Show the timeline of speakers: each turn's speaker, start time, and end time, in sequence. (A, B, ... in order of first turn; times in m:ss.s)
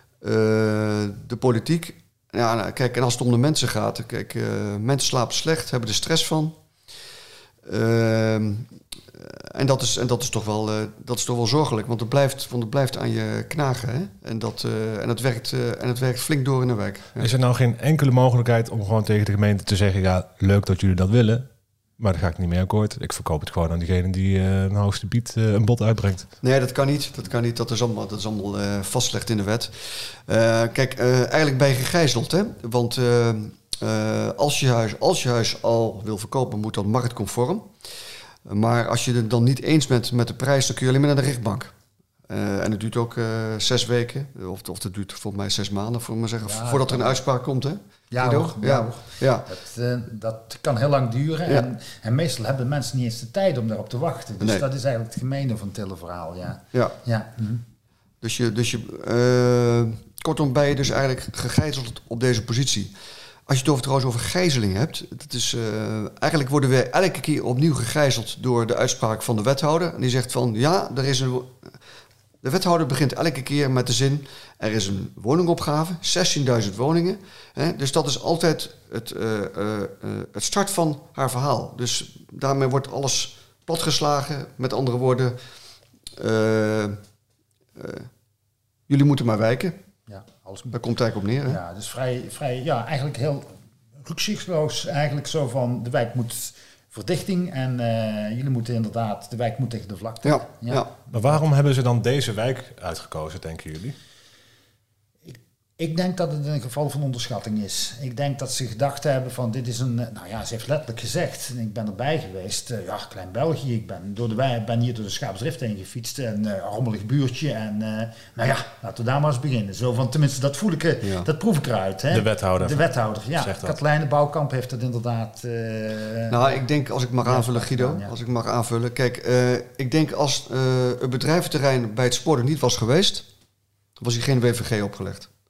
0:00.2-0:06.6 A
0:07.6-0:17.3 A
0:17.2-0:21.5 B
0:22.0-0:26.3 B
0:26.4-0:37.7 A
0:38.5-0:41.7 A
0:42.3-0:49.5 A
0:46.4-0:47.2 C
0:48.1-0:57.6 C
0:54.4-0:54.7 A
0:56.7-0:57.0 A
0:58.2-1:02.9 A
1:03.5-1:11.6 A
1:12.4-1:25.4 A
1:26.2-1:27.0 A
1:27.8-1:28.1 A
1:28.9-1:29.8 A
1:30.1-1:30.8 C
1:30.7-1:31.6 A
1:31.5-1:33.5 C
1:34.0-1:40.8 C
1:40.2-1:40.9 A
1:41.1-1:44.0 B
1:45.2-2:06.5 C
2:01.0-2:01.3 A
2:02.1-2:03.8 B
2:06.3-2:13.3 A
2:07.2-2:08.1 C
2:14.0-2:15.3 A